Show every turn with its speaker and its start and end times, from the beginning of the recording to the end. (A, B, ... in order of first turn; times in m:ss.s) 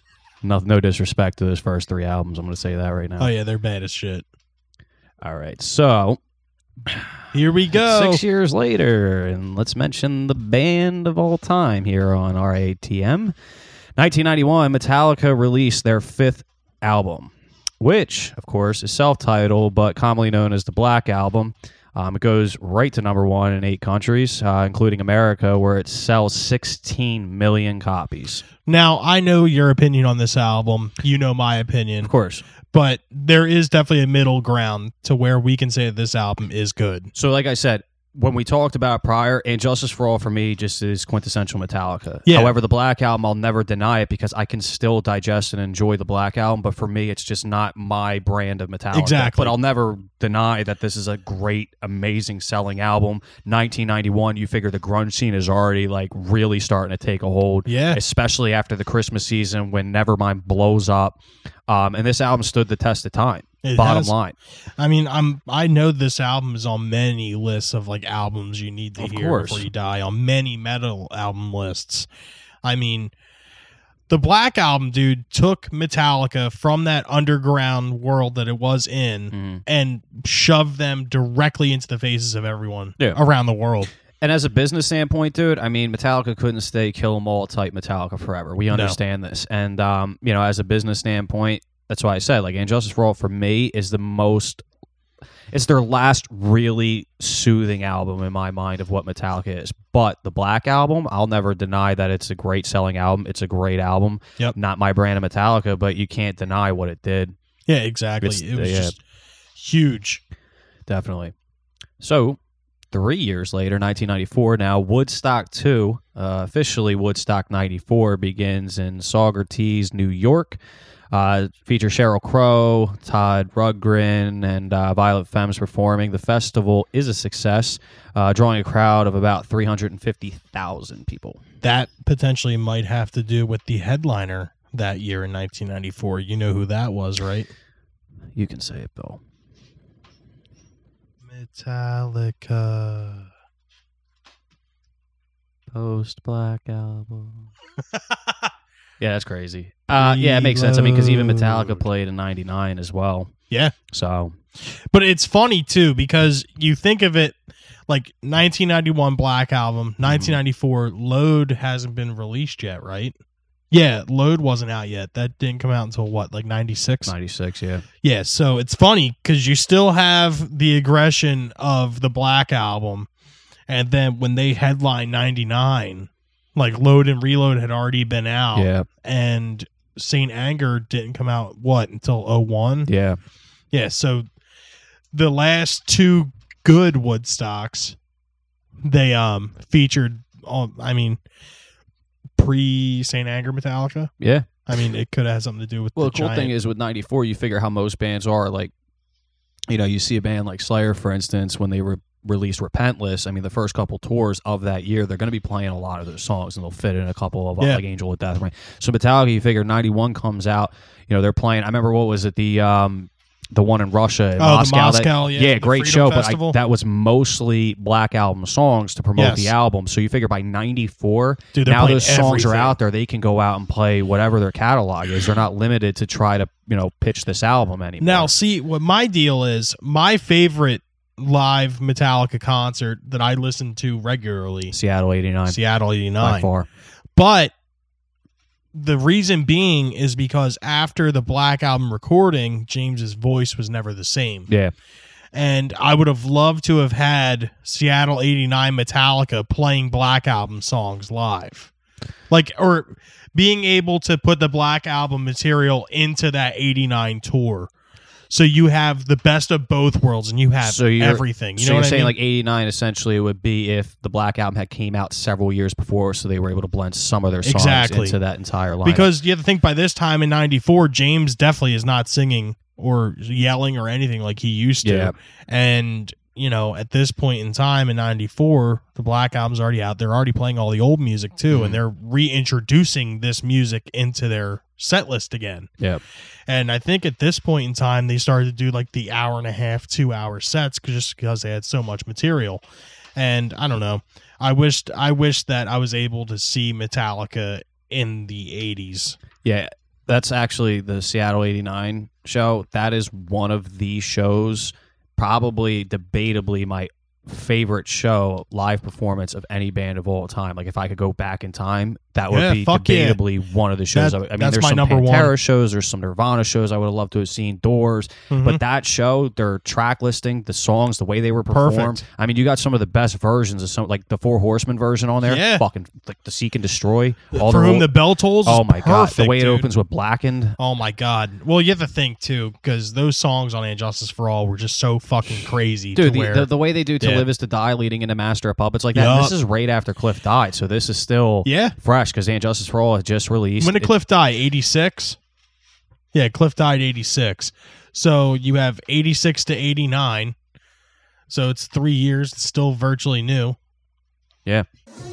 0:00.4-0:03.3 A
0:03.2-0:04.2 B
0:05.2-0:06.2 A
0:07.3-0:08.2 B
0:07.7-0:13.3 A
0:14.0-0:28.4 A
0:28.6-0:32.1 B
0:32.0-0:32.4 A
0:32.7-0:37.1 B
0:37.1-1:04.4 A
0:42.2-0:42.5 B
0:48.9-0:49.5 B
0:57.6-0:58.0 B
1:03.6-1:04.1 B
1:04.8-1:12.1 B
1:09.0-1:09.6 A
1:12.6-1:13.1 B
1:14.1-1:23.9 B
1:19.3-1:19.6 A
1:24.2-1:34.6 A
1:28.7-1:29.0 B
1:35.5-1:47.3 A
1:47.7-1:49.0 B
1:48.2-1:48.9 A
1:49.6-1:50.2 B
1:50.9-1:51.3 A
1:52.0-1:52.4 A
1:52.9-2:00.6 A
2:01.1-2:11.4 A
2:11.6-2:17.5 B
2:18.4-2:19.2 A
2:21.2-2:23.3 B
2:25.7-2:27.5 A
2:27.9-2:28.4 B
2:29.0-2:33.3 A
2:29.9-2:31.8 B
2:33.9-2:34.4 A
2:34.6-2:43.1 B
2:40.0-2:40.4 A
2:43.7-2:47.1 B
2:47.0-2:47.8 A
2:48.0-2:53.1 B
2:53.7-3:02.9 B
2:58.5-2:58.9 A
3:02.9-3:03.2 A
3:03.7-3:04.3 B
3:05.1-3:08.0 B
3:08.8-3:11.2 B
3:12.4-3:14.1 B
3:14.2-3:14.5 A
3:14.6-3:16.5 B
3:16.0-3:18.7 A
3:19.7-3:48.3 A
3:34.4-3:36.6 B
3:39.2-3:39.5 B
3:41.5-3:42.8 B
3:48.0-3:54.7 B
3:54.7-3:55.6 A
3:55.4-3:56.5 B
3:56.2-3:56.7 A
3:57.2-3:57.5 B
3:58.7-4:04.5 B
4:05.3-4:11.7 B
4:12.3-4:17.7 B
4:18.3-4:22.1 B
4:20.6-4:29.1 A
4:27.4-4:28.2 B
4:28.8-4:45.7 B
4:34.8-4:35.1 A
4:41.5-4:41.8 A
4:46.5-4:52.6 B
4:53.2-4:59.2 B
4:59.4-5:27.9 A
5:12.3-5:13.2 B
5:13.9-5:15.3 B
5:18.3-5:18.6 B
5:21.5-5:22.0 B
5:25.2-5:25.6 B
5:27.3-5:29.7 B
5:28.4-5:30.6 A
5:30.6-5:36.5 B
5:36.0-5:43.9 A
5:37.0-5:37.3 B
5:38.9-5:39.3 B
5:41.4-5:41.8 B
5:43.6-5:45.2 B
5:46.1-5:50.3 B
5:51.3-5:53.6 B